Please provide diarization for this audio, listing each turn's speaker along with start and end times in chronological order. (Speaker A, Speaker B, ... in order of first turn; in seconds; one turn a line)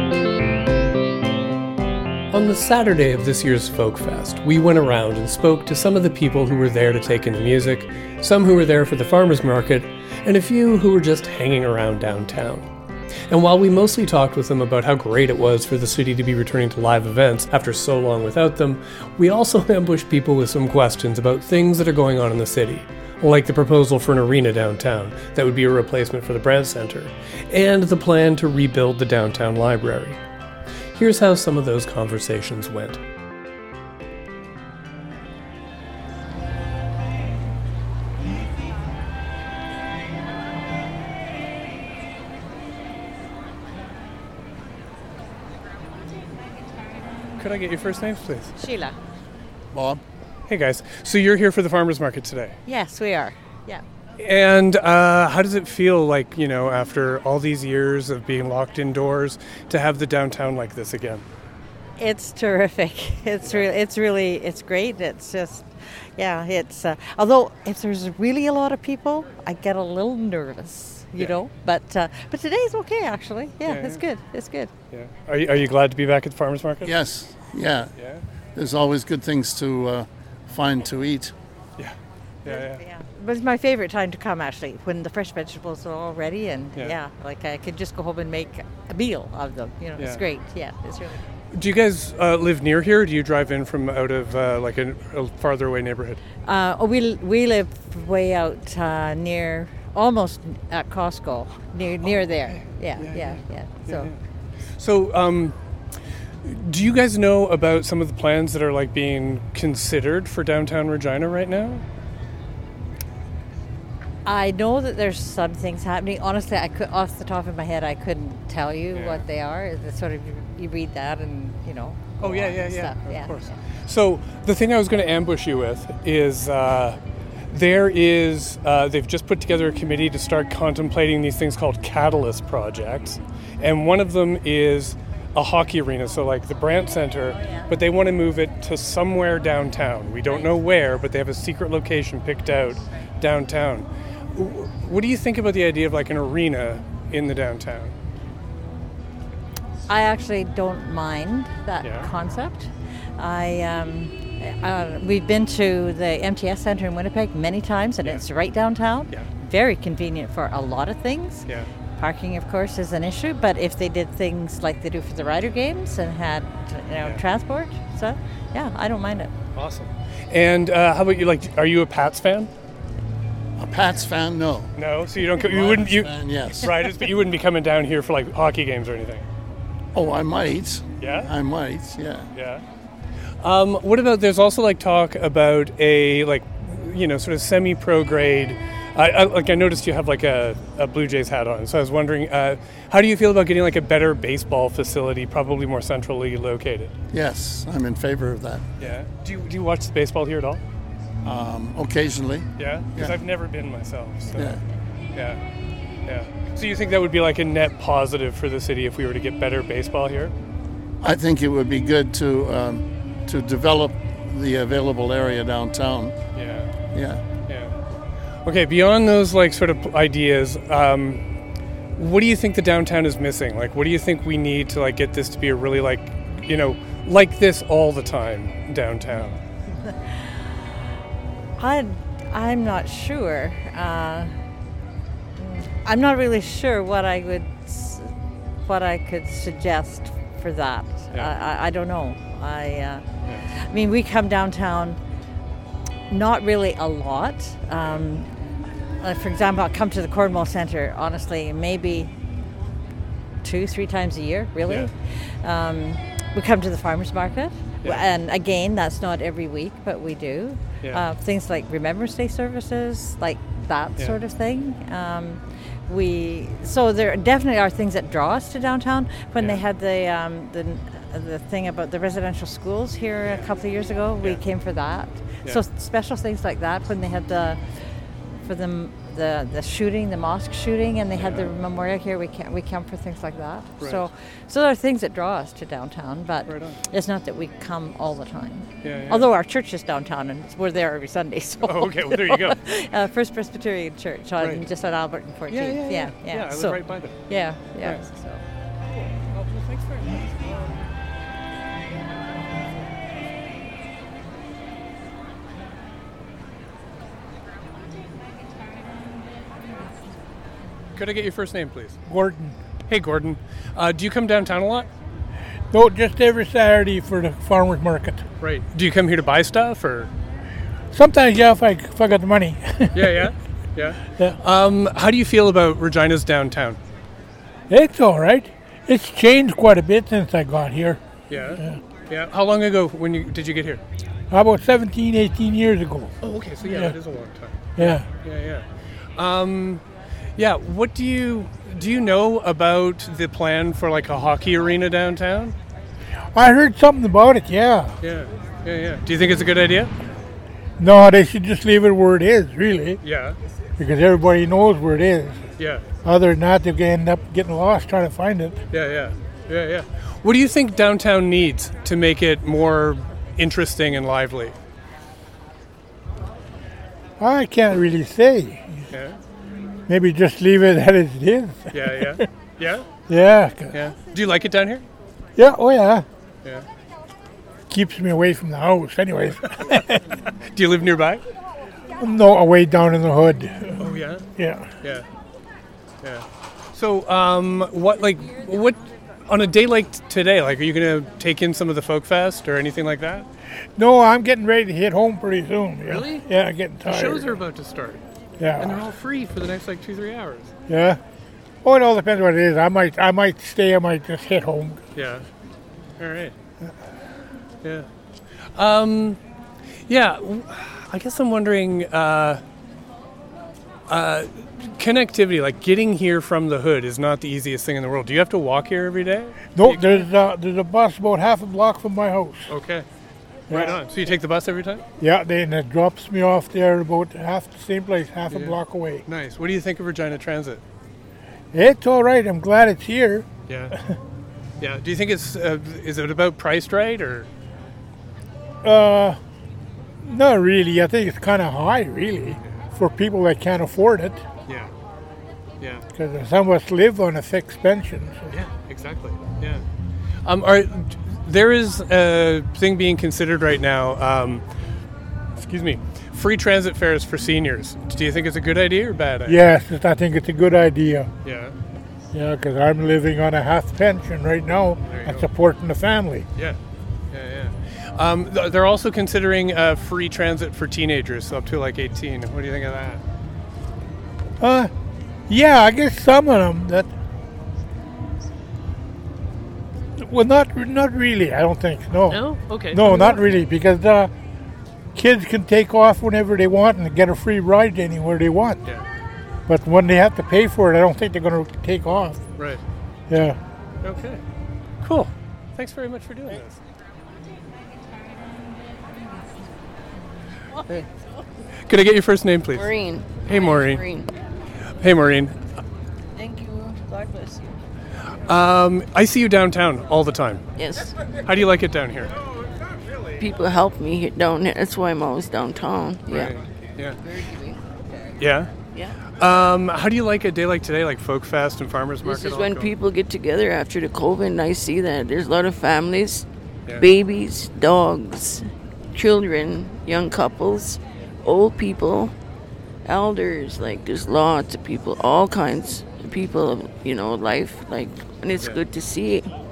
Speaker A: 2.3-12.7
Speaker A: 13.3-30.2
Speaker A: 30.9-33.0
Speaker A: 47.4-48.5
Speaker B: 48.6-49.0
Speaker C: 49.7-50.0
Speaker A: 50.5-52.6
Speaker B: 52.7-53.8
Speaker A: 54.2-61.2
Speaker B: 62.0-74.7
Speaker A: 73.7-74.0
Speaker A: 74.9-76.9
Speaker C: 76.8-77.9
Speaker C: 78.5-81.3
Speaker A: 81.8-82.8
Speaker B: 82.5-91.2
Speaker A: 91.5-96.2
Speaker B: 96.5-104.1
Speaker A: 102.5-104.2
Speaker A: 104.8-105.5
Speaker A: 106.5-111.8
Speaker B: 114.2-123.5
Speaker A: 118.9-119.2
Speaker A: 122.2-127.0
Speaker A: 127.5-147.9
Speaker B: 137.3-137.7
Speaker B: 140.3-140.6
Speaker B: 149.9-161.5
Speaker A: 151.8-152.1
Speaker B: 162.0-169.3
Speaker A: 169.6-172.5
Speaker C: 173.6-174.7
Speaker A: 174.8-179.2
Speaker C: 175.3-176.8
Speaker C: 179.9-182.3
Speaker A: 181.0-181.3
Speaker A: 182.3-182.6
Speaker A: 183.4-196.9
Speaker C: 197.1-198.6
Speaker A: 198.8-200.6
Speaker C: 201.2-203.2
Speaker A: 202.6-204.5
Speaker C: 204.3-204.6
Speaker A: 206.1-210.3
Speaker C: 211.0-216.1
Speaker A: 216.4-216.7
Speaker C: 216.9-217.2
Speaker A: 217.5-217.7
Speaker A: 218.5-221.2
Speaker A: 222.0-229.4
Speaker B: 229.8-230.4
Speaker B: 231.6-234.3
Speaker B: 235.4-238.1
Speaker B: 238.7-245.0
Speaker B: 246.1-248.3
Speaker B: 249.0-252.1
Speaker B: 253.4-277.6
Speaker B: 278.4-298.4
Speaker A: 281.2-281.5
Speaker A: 283.8-284.1
Speaker A: 286.5-286.8
Speaker A: 288.8-289.3
Speaker A: 291.6-292.6
Speaker A: 295.5-297.1
Speaker A: 298.9-300.6
Speaker A: 311.0-312.0
Speaker D: 312.1-312.6
Speaker A: 312.9-314.9
Speaker D: 315.7-318.2
Speaker A: 318.4-320.1
Speaker D: 320.9-323.3
Speaker A: 322.9-326.8
Speaker D: 327.7-331.0
Speaker A: 331.3-333.8
Speaker D: 334.3-337.0
Speaker A: 336.2-338.6
Speaker D: 337.8-338.1
Speaker A: 339.2-339.8
Speaker A: 340.4-345.6
Speaker D: 346.4-348.0
Speaker A: 348.0-349.9
Speaker D: 350.8-353.0
Speaker A: 353.0-353.4
Speaker D: 353.8-355.4
Speaker A: 355.6-355.8
Speaker D: 356.0-358.6
Speaker A: 358.7-364.6
Speaker D: 367.2-368.8
Speaker A: 368.9-369.2
Speaker D: 369.9-372.3
Speaker A: 371.7-372.9
Speaker D: 373.1-373.8
Speaker A: 373.7-374.9
Speaker D: 375.4-376.1
Speaker D: 377.7-380.0
Speaker A: 379.5-381.2
Speaker D: 382.0-384.7
Speaker A: 383.8-384.2
Speaker A: 386.8-393.3
Speaker D: 393.8-397.4
Speaker A: 395.9-396.3
Speaker A: 396.9-398.0
Speaker D: 398.4-398.9
Speaker A: 398.6-400.5
Speaker D: 400.7-401.0
Speaker D: 401.6-404.8
Speaker A: 404.9-405.2
Speaker A: 406.0-406.4
Speaker A: 408.6-409.2
Speaker A: 409.9-412.4
Speaker A: 413.9-420.1
Speaker D: 419.6-422.5
Speaker A: 422.5-422.9
Speaker D: 423.5-423.8
Speaker A: 423.5-424.8
Speaker D: 425.0-429.0
Speaker A: 428.3-430.6
Speaker D: 431.5-434.0
Speaker A: 433.5-433.8
Speaker A: 434.6-437.3
Speaker D: 438.6-439.2
Speaker D: 440.0-444.2
Speaker D: 446.0-448.3
Speaker A: 448.3-449.6
Speaker A: 450.2-454.4
Speaker A: 455.4-459.4
Speaker D: 459.3-461.1
Speaker A: 461.2-461.6
Speaker D: 462.1-466.3
Speaker A: 464.9-465.3
Speaker A: 467.1-473.0
Speaker D: 474.4-474.7
Speaker D: 475.3-476.9
Speaker D: 480.0-484.1
Speaker A: 482.1-483.2
Speaker D: 484.9-488.6
Speaker D: 489.5-492.2
Speaker D: 493.1-493.4
Speaker A: 493.8-494.2
Speaker A: 494.8-496.6
Speaker A: 501.7-502.7
Speaker E: 502.5-504.1
Speaker A: 503.3-503.8
Speaker A: 504.8-505.4
Speaker E: 506.1-507.6
Speaker A: 508.3-510.4
Speaker E: 510.6-510.9
Speaker A: 511.3-512.1
Speaker E: 513.2-516.4
Speaker A: 516.1-517.0
Speaker E: 517.0-517.6
Speaker A: 518.2-518.5
Speaker E: 518.7-519.0
Speaker A: 519.2-522.7
Speaker E: 522.0-532.1
Speaker E: 532.9-539.3